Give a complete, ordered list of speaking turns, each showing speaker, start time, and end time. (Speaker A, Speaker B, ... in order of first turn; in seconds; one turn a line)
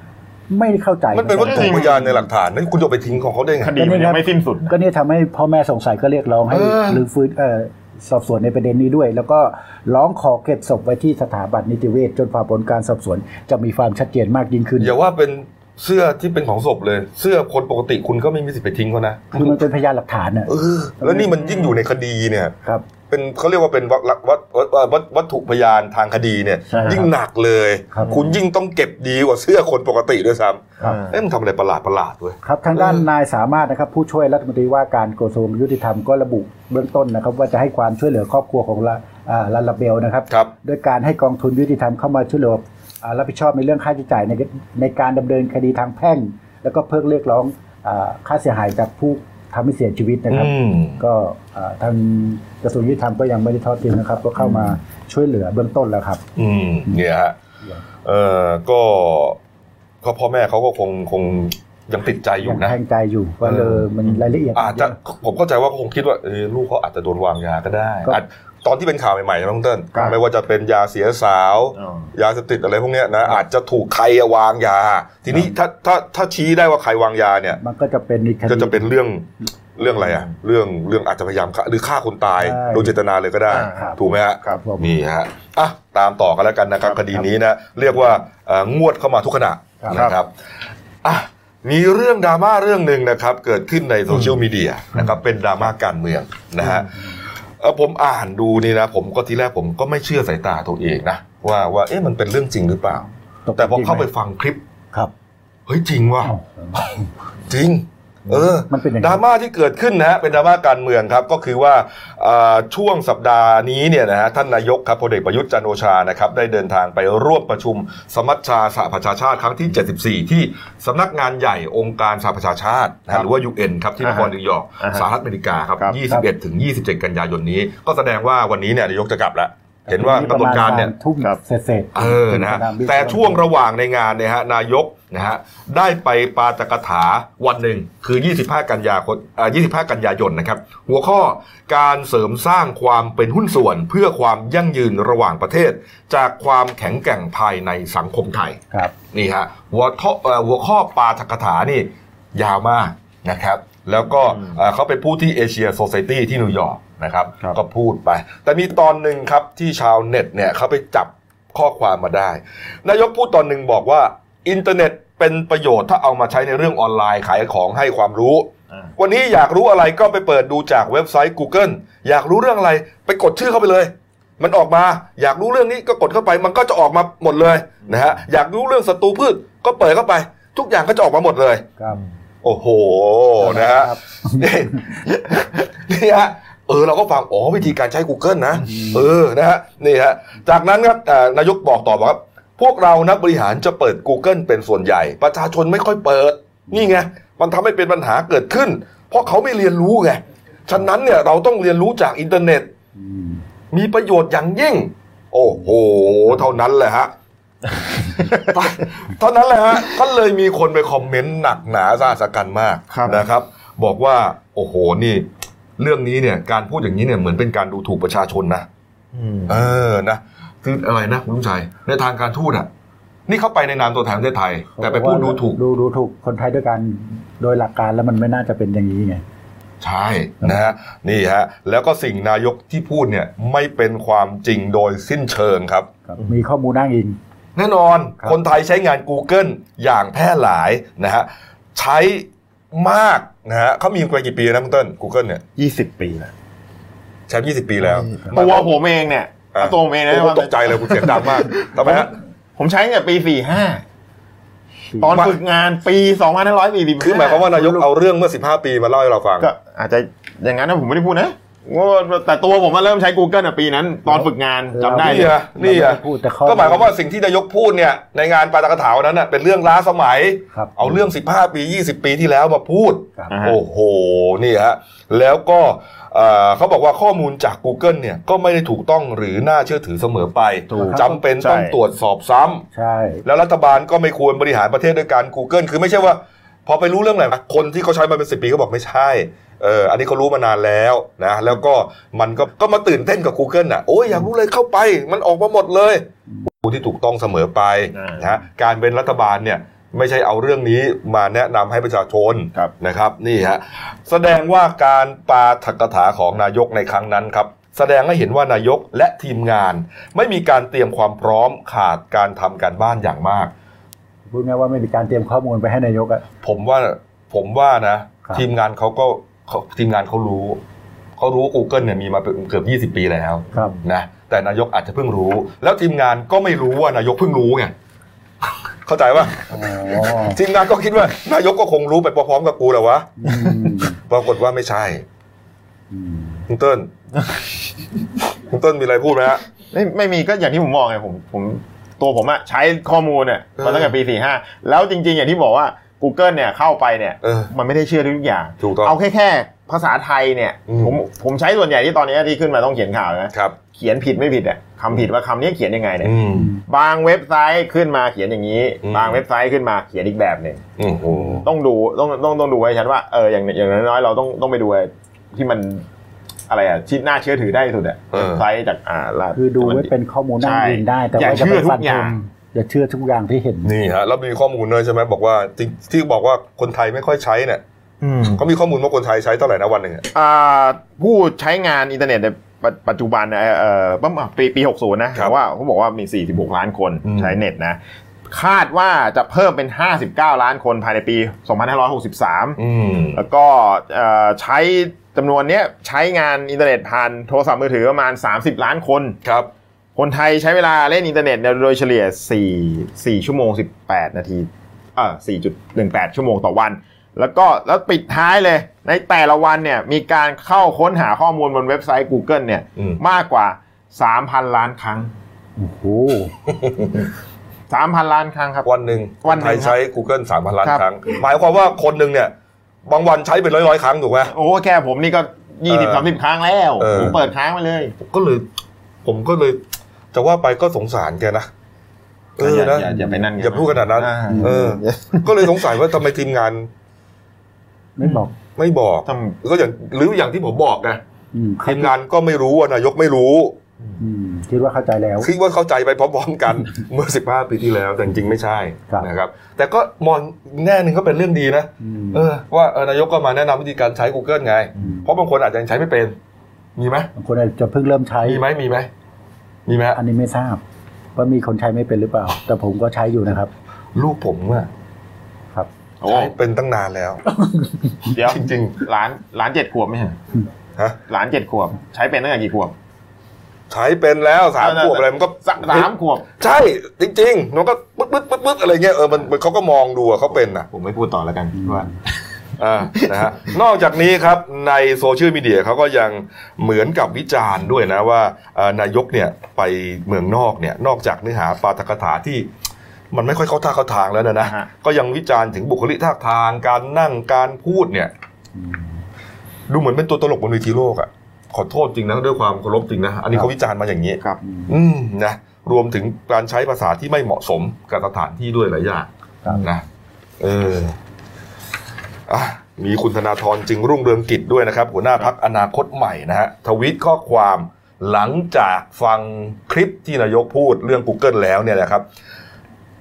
Speaker A: 0.5-2.1
Speaker B: 1.1-3.7
Speaker C: 1.4-1.9
Speaker C: 3.6-4.7
Speaker A: 3.8-14.9
Speaker B: 6.5-7.0
Speaker B: 14.8-19.6
Speaker A: 19.4-21.8
Speaker B: 20.5-22.6
Speaker B: 23.1-33.1
Speaker C: 26.7-27.0
Speaker A: 26.8-27.1
Speaker C: 30.8-31.2
Speaker A: 32.4-56.2
Speaker B: 50.3-51.0
Speaker B: 56.4-57.4
Speaker B: 58.0-59.4
Speaker B: 60.0-62.8
Speaker A: 62.4-65.0
Speaker B: 63.4-63.9
Speaker B: 64.5-77.6
Speaker C: 71.8-72.1
Speaker A: 77.6-78.9
Speaker B: 78.5-90.3
Speaker A: 82.4-82.9
Speaker C: 83.5-84.6
Speaker A: 83.7-84.9
Speaker C: 89.9-90.2
Speaker B: 91.0-97.1
Speaker C: 94.1-94.4
Speaker C: 96.6-96.9
Speaker B: 97.6-104.6
Speaker A: 103.5-104.1
Speaker B: 105.7-106.4
Speaker A: 106.2-107.1
Speaker B: 107.5-130.9
Speaker A: 108.3-109.2
Speaker C: 124.0-125.1
Speaker A: 129.9-133.4
Speaker B: 131.9-148.6
Speaker B: 149.1-181.7
Speaker C: 154.3-154.6
Speaker B: 182.4-202.7
Speaker A: 183.4-185.0
Speaker A: 188.7-189.1
Speaker A: 203.0-203.4
Speaker B: 203.7-207.1
Speaker C: 208.2-208.5
Speaker B: 208.2-218.7
Speaker C: 212.9-213.2
Speaker C: 219.1-219.7
Speaker B: 219.5-222.7
Speaker B: 223.3-225.6
Speaker A: 224.8-229.2
Speaker B: 229.8-235.9
Speaker A: 236.1-237.2
Speaker B: 237.6-245.4
Speaker C: 245.6-246.3
Speaker B: 247.3-248.7
Speaker C: 248.2-253.8
Speaker B: 249.5-252.1
Speaker A: 254.9-255.2
Speaker C: 255.0-257.6
Speaker B: 257.0-259.5
Speaker C: 259.4-265.3
Speaker A: 264.1-266.9
Speaker B: 265.0-282.6
Speaker A: 270.5-271.0
Speaker C: 273.3-273.6
Speaker C: 280.7-281.8
Speaker A: 280.8-281.2
Speaker A: 282.7-283.2
Speaker B: 283.2-296.1
Speaker B: 296.6-313.5
Speaker C: 297.9-298.3
Speaker A: 314.3-316.2
Speaker B: 316.4-320.6
Speaker B: 321.2-327.7
Speaker B: 328.9-335.1
Speaker A: 329.5-330.4
Speaker A: 333.2-334.0
Speaker A: 335.9-336.4
Speaker B: 336.5-336.9
Speaker B: 338.5-339.4
Speaker C: 339.7-360.6
Speaker B: 343.6-343.9
Speaker B: 347.2-347.5
Speaker B: 348.6-349.0
Speaker B: 350.7-350.9
Speaker B: 356.0-356.6
Speaker B: 358.8-359.2
Speaker B: 360.8-361.5
Speaker A: 361.1-361.4
Speaker C: 361.4-365.9
Speaker C: 366.5-372.1
Speaker B: 368.1-368.4
Speaker A: 369.4-373.7
Speaker B: 373.6-377.6
Speaker C: 378.0-378.4
Speaker B: 378.3-380.1
Speaker C: 380.1-392.6
Speaker B: 387.0-387.4
Speaker B: 392.6-393.2
Speaker C: 393.1-399.2
Speaker B: 399.2-399.5
Speaker C: 400.0-415.1
Speaker A: 415.6-416.3
Speaker B: 416.5-416.9
Speaker C: 417.7-418.7
Speaker B: 418.6-422.3
Speaker C: 419.2-419.8
Speaker B: 422.9-424.3
Speaker C: 424.3-427.9
Speaker B: 425.7-426.1
Speaker B: 426.8-427.2
Speaker B: 428.0-428.4
Speaker B: 429.0-429.6
Speaker B: 430.1-431.5
Speaker B: 432.4-436.7
Speaker C: 432.4-435.8
Speaker A: 434.3-434.8
Speaker A: 438.0-438.3
Speaker B: 438.6-441.0
Speaker C: 439.1-439.4
Speaker A: 441.3-441.9
Speaker B: 441.6-443.6
Speaker A: 444.0-445.3
Speaker B: 445.2-456.2
Speaker A: 451.8-452.2
Speaker B: 456.8-457.1
Speaker A: 457.2-458.4
Speaker B: 458.2-458.9
Speaker B: 459.7-460.0
Speaker A: 459.9-460.6
Speaker A: 461.2-463.5
Speaker B: 463.9-464.7
Speaker C: 466.0-466.3
Speaker B: 466.0-467.2
Speaker C: 468.1-470.2
Speaker B: 468.2-468.8
Speaker C: 471.1-472.8
Speaker B: 473.7-480.7
Speaker C: 474.6-476.3
Speaker C: 480.7-481.9
Speaker B: 482.6-492.5
Speaker B: 493.1-498.1
Speaker C: 494.4-494.7
Speaker A: 498.6-498.9
Speaker B: 499.7-509.9
Speaker A: 504.4-504.7
Speaker B: 510.4-511.0
Speaker B: 512.3-522.0